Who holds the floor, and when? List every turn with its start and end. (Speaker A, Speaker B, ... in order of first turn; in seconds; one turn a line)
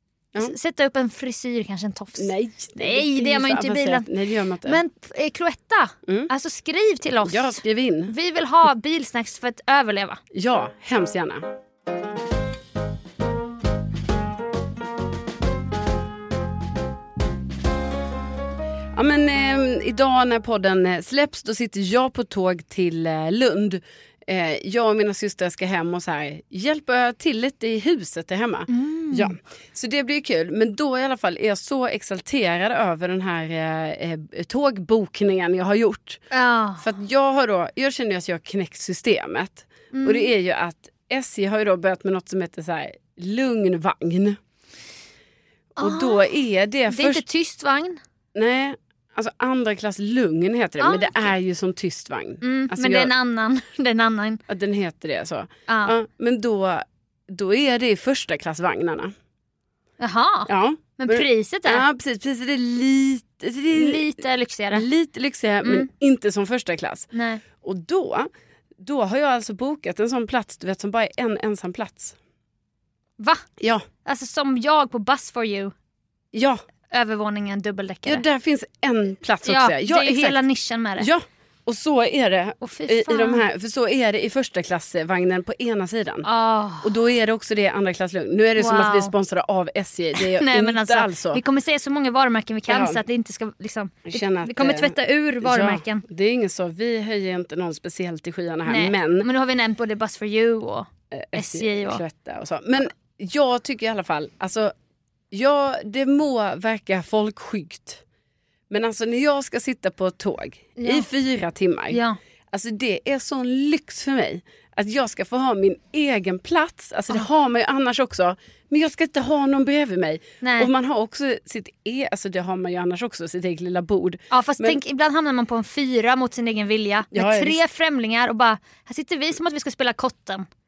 Speaker A: 0.3-4.0
Speaker B: 2.2-4.8
Speaker A: 4.6-10.2
Speaker B: 7.2-8.1
Speaker B: 10.3-11.5
Speaker B: 18.9-36.2
Speaker A: 28.7-29.3
Speaker A: 36.3-36.9
Speaker B: 36.8-44.4
Speaker A: 39.9-40.3
Speaker A: 45.8-46.2
Speaker B: 45.8-47.2
Speaker A: 46.9-48.0
Speaker B: 48.3-53.1
Speaker A: 50.8-51.2
Speaker A: 52.4-54.4
Speaker B: 54.5-59.1
Speaker A: 55.7-55.9
Speaker A: 60.0-61.8
Speaker B: 60.5-64.2
Speaker A: 63.7-64.9
Speaker B: 64.7-67.1
Speaker A: 65.6-65.9
Speaker A: 67.1-67.4
Speaker B: 67.6-68.3
Speaker B: 68.8-72.2
Speaker A: 73.2-73.5
Speaker B: 73.6-73.8
Speaker A: 74.0-75.7
Speaker B: 76.3-76.6
Speaker A: 76.9-78.2
Speaker B: 78.0-80.4
Speaker A: 79.4-81.1
Speaker B: 81.0-86.3
Speaker A: 82.6-83.4
Speaker A: 86.2-86.9
Speaker B: 86.8-91.4
Speaker A: 88.6-89.1
Speaker A: 90.2-96.0
Speaker B: 92.7-93.0
Speaker B: 94.0-99.3
Speaker A: 98.7-102.0
Speaker B: 101.1-104.7
Speaker B: 105.3-108.0
Speaker B: 108.7-112.0
Speaker A: 110.8-111.0
Speaker A: 111.9-112.2
Speaker B: 112.5-124.8
Speaker A: 120.4-120.7
Speaker A: 124.3-130.5
Speaker B: 127.1-127.6